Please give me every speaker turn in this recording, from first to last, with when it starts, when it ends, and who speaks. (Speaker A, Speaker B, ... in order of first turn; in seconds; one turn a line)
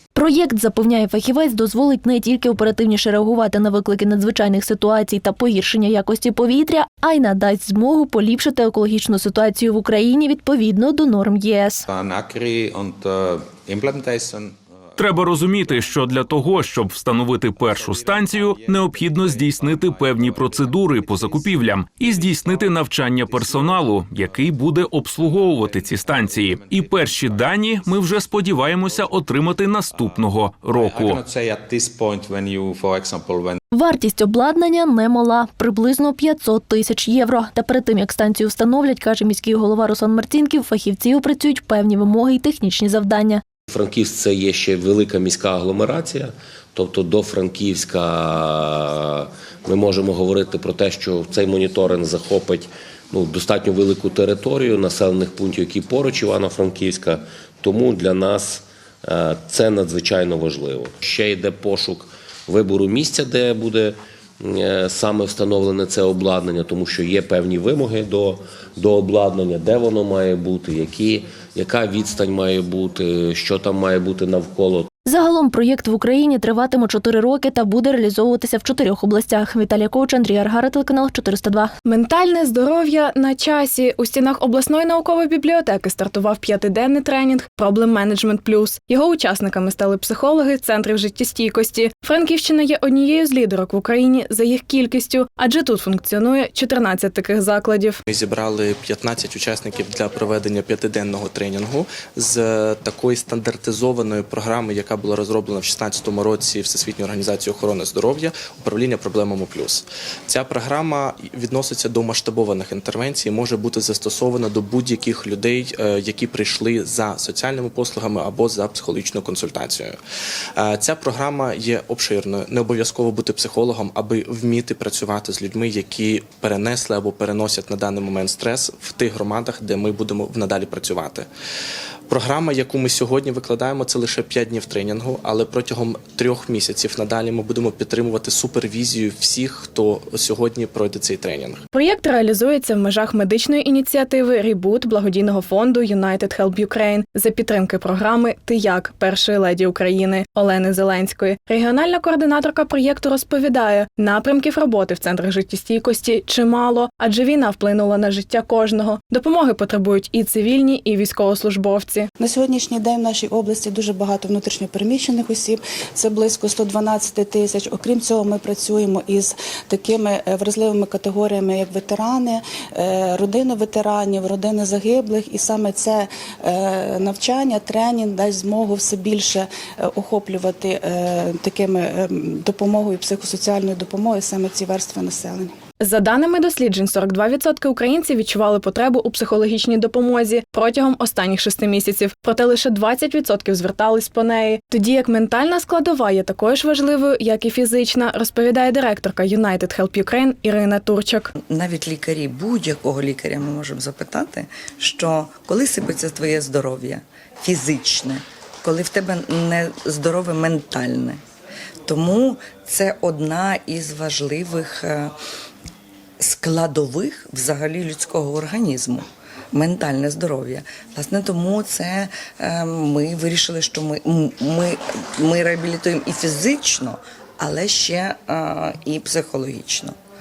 Speaker A: 0.1-11.8
Speaker B: 11.9-16.9
Speaker C: 15.0-31.2
Speaker B: 17.5-24.6
Speaker B: 25.2-29.2
Speaker B: 29.9-33.6
Speaker A: 33.7-43.4
Speaker D: 43.7-63.9
Speaker D: 64.5-74.9
Speaker A: 75.1-81.7
Speaker E: 81.9-98.0
Speaker B: 98.1-120.0
Speaker B: 120.6-131.3
Speaker B: 132.1-141.6
Speaker E: 141.7-162.1
Speaker F: 162.2-185.5
Speaker E: 185.8-201.3
Speaker G: 201.5-211.2
Speaker G: 211.9-215.1
Speaker G: 216.2-229.9